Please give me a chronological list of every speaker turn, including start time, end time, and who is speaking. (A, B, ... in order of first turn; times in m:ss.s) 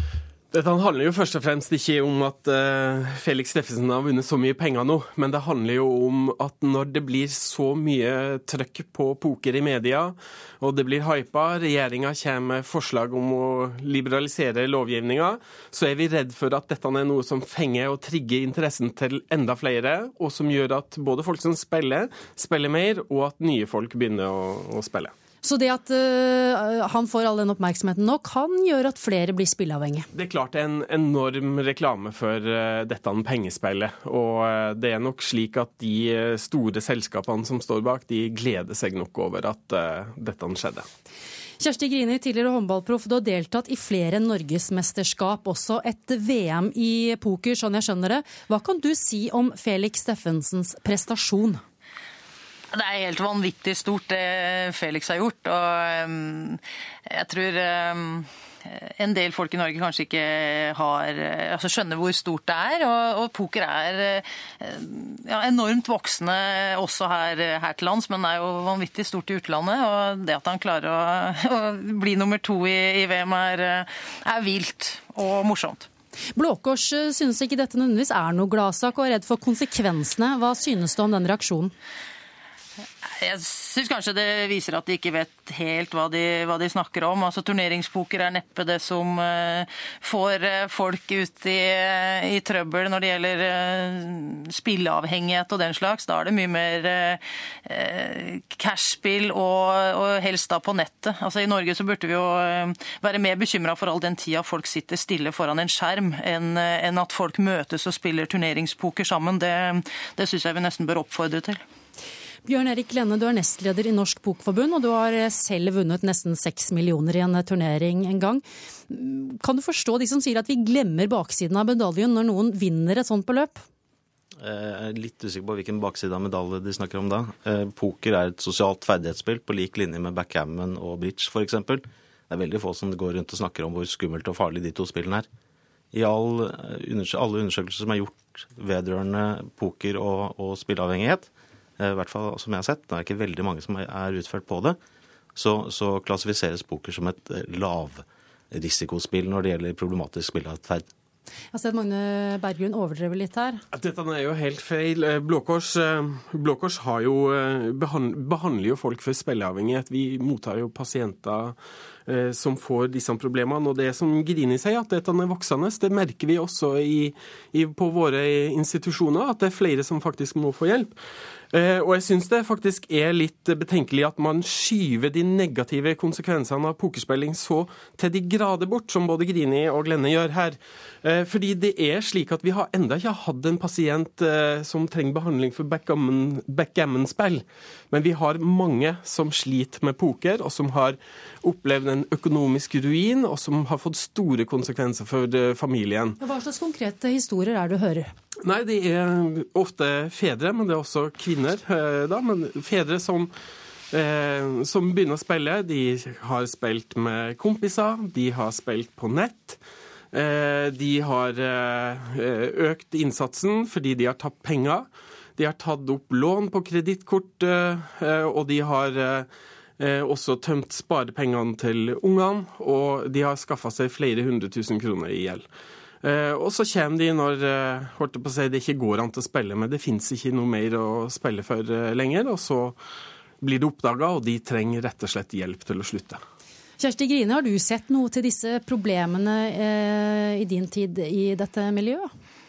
0:00.5-0:25.1 A
0:25.4-0:30.1 B
0:30.1-0:40.9 A
0:41.6-0:51.6 B
0:52.7-1:15.9 C
1:16.4-1:21.7 B
1:23.2-1:51.6 C
1:52.5-2:03.6 B
2:04.4-2:15.3 D
2:15.9-2:24.8 D
2:25.4-2:30.9 D
2:31.5-2:33.6 B
2:33.7-2:41.6 A
2:42.1-2:51.0 A
2:51.5-3:16.2 A
3:16.2-3:18.1 B
3:18.4-3:23.3 A
3:23.9-3:29.6 A
3:30.1-3:39.3 A
3:39.8-3:45.5 A
3:46.0-3:52.8 A
3:53.4-3:56.2 A
3:56.8-4:02.1 B